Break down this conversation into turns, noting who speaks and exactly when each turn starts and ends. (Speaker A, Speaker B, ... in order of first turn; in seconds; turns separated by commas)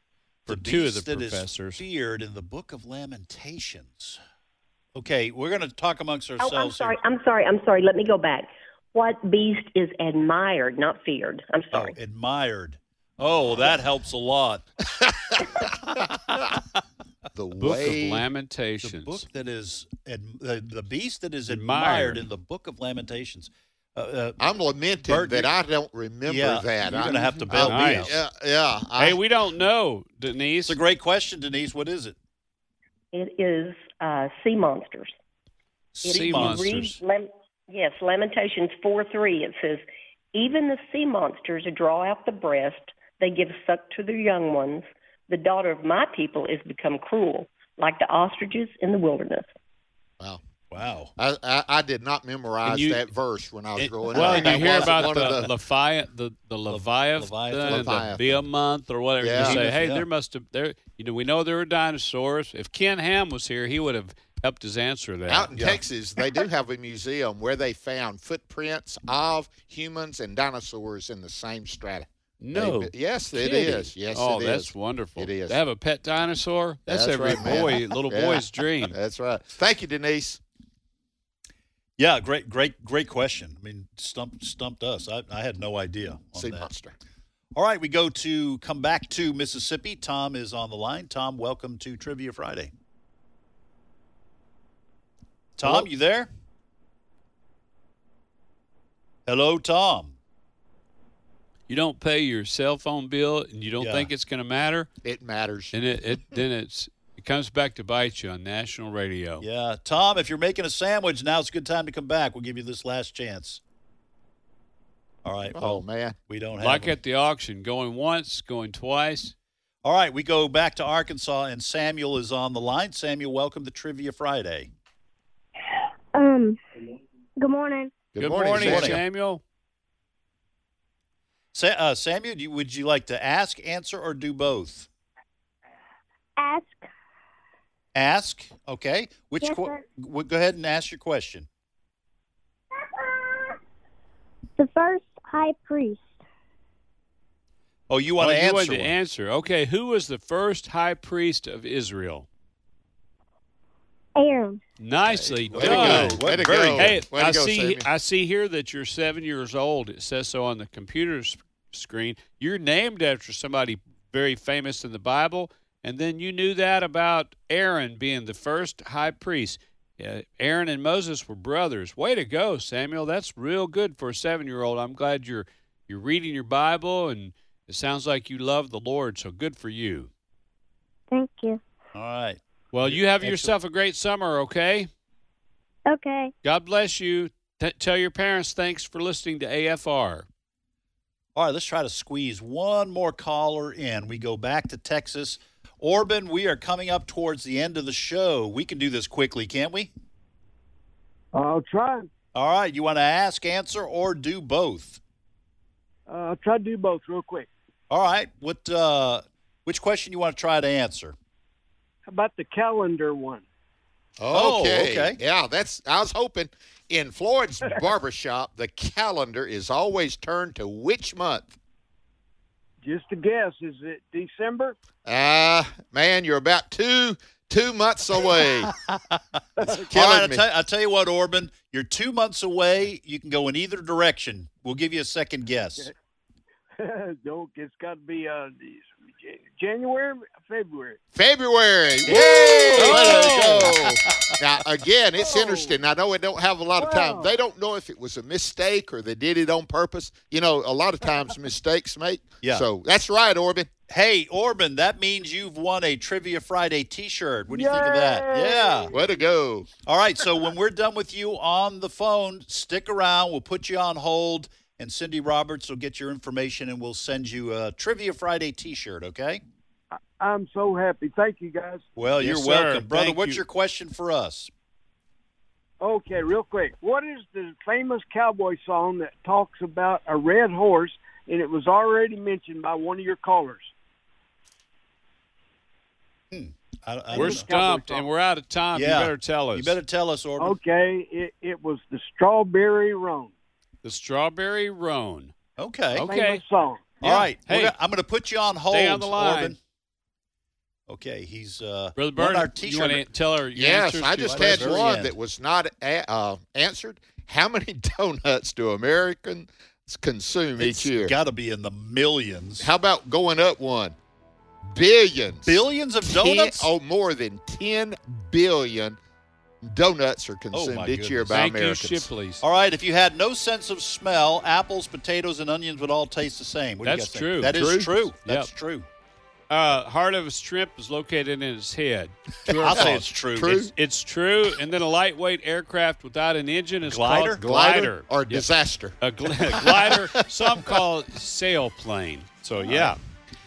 Speaker A: 0.5-1.8, Speaker B: 0.5-4.2, Speaker B: 4.9-7.0, Speaker C: 6.4-12.0, Speaker B: 11.7-14.6, Speaker D: 17.4-18.2, Speaker A: 17.6-19.2, Speaker B: 18.8-24.4, Speaker A: 21.5-22.2, Speaker D: 24.4-29.2, Speaker B: 25.1-25.5, Speaker B: 26.2-28.1, Speaker A: 27.5-28.1, Speaker A: 29.0-30.8, Speaker B: 30.6-32.1, Speaker C: 33.1-35.1, Speaker B: 35.9-36.7, Speaker C: 36.0-49.5, Speaker A: 36.1-37.0, Speaker B: 50.7-51.1, Speaker D: 51.2-55.5, Speaker A: 52.6-53.0, Speaker B: 53.8-55.5, Speaker A: 54.1-65.5, Speaker B: 56.7-58.1, Speaker D: 57.7-58.4, Speaker D: 59.2-59.6, Speaker B: 59.4-60.1, Speaker D: 65.3-75.6, Speaker B: 65.5-65.8, Speaker A: 72.4-79.0, Speaker D: 76.9-80.4, Speaker B: 82.0-86.7, Speaker D: 86.4-86.9, Speaker B: 87.5-92.7, Speaker B: 95.6-96.3, Speaker B: 99.3-100.2, Speaker A: 101.7-104.9, Speaker B: 103.8-104.1, Speaker D: 105.0-105.7, Speaker A: 105.7-109.4, Speaker B: 109.4-113.6, Speaker B: 115.2-117.0, Speaker D: 115.5-116.2, Speaker A: 116.6-119.3, Speaker B: 119.8-124.7, Speaker E: 126.1-126.6, Speaker E: 127.4-127.9, Speaker D: 128.1-129.0, Speaker A: 128.2-129.4, Speaker B: 128.3-129.0, Speaker B: 131.5-134.9, Speaker E: 136.4-136.8, Speaker B: 137.9-141.5, Speaker E: 139.4-139.8, Speaker E: 144.6-146.2, Speaker B: 147.9-149.0, Speaker A: 148.2-152.3, Speaker E: 154.1-154.6, Speaker A: 154.8-180.1, Speaker D: 155.1-157.8, Speaker B: 155.6-157.0, Speaker E: 181.1-181.6, Speaker B: 181.9-183.5, Speaker A: 182.7-184.9, Speaker E: 185.9-186.3, Speaker A: 186.4-190.3, Speaker B: 191.3-199.9, Speaker F: 201.3-202.1, Speaker B: 202.3-205.0, Speaker F: 206.1-207.5, Speaker B: 207.9-211.2, Speaker F: 212.1-213.4, Speaker D: 214.2-221.6, Speaker B: 214.3-215.2, Speaker F: 222.8-224.8, Speaker D: 225.1-228.7, Speaker B: 228.4-235.9, Speaker D: 229.7-230.4, Speaker F: 236.8-241.0, Speaker D: 241.1-253.7, Speaker B: 242.1-244.3, Speaker F: 242.4-242.9, Speaker A: 242.8-243.5, Speaker F: 245.2-245.8, Speaker F: 246.8-247.4, Speaker B: 253.9-258.9, Speaker F: 257.5-259.0, Speaker D: 258.9-259.7, Speaker B: 259.9-269.4, Speaker F: 269.9-271.9, Speaker B: 272.0-274.5, Speaker A: 272.2-273.4, Speaker F: 275.8-283.7, Speaker B: 286.3-287.5, Speaker F: 287.1-288.1, Speaker A: 287.1-289.8, Speaker B: 288.7-290.6, Speaker F: 290.4-293.3, Speaker A: 293.8-295.3, Speaker B: 295.6-296.1, Speaker A: 296.0-296.4, Speaker F: 296.0-297.0, Speaker A: 297.0-297.8, Speaker B: 297.0-299.6, Speaker A: 298.7-299.6, Speaker B: 300.9-303.1, Speaker A: 302.0-304.9, Speaker D: 303.6-311.1, Speaker B: 304.3-305.1, Speaker B: 310.6-312.7, Speaker D: 312.6-313.9, Speaker D: 314.7-319.0, Speaker B: 315.4-316.7, Speaker D: 319.6-322.1, Speaker B: 320.5-321.4, Speaker A: 321.3-322.4, Speaker B: 322.4-328.9, Speaker A: 326.8-327.7, Speaker D: 327.5-327.9, Speaker A: 328.2-328.5, Speaker A: 329.5-333.0, Speaker D: 332.4-333.7, Speaker B: 332.5-333.7, Speaker A: 333.7-338.5, Speaker B: 336.8-337.4, Speaker D: 337.4-339.0, Speaker A: 339.0-343.0, Speaker D: 339.5-340.1, Speaker B: 342.6-343.0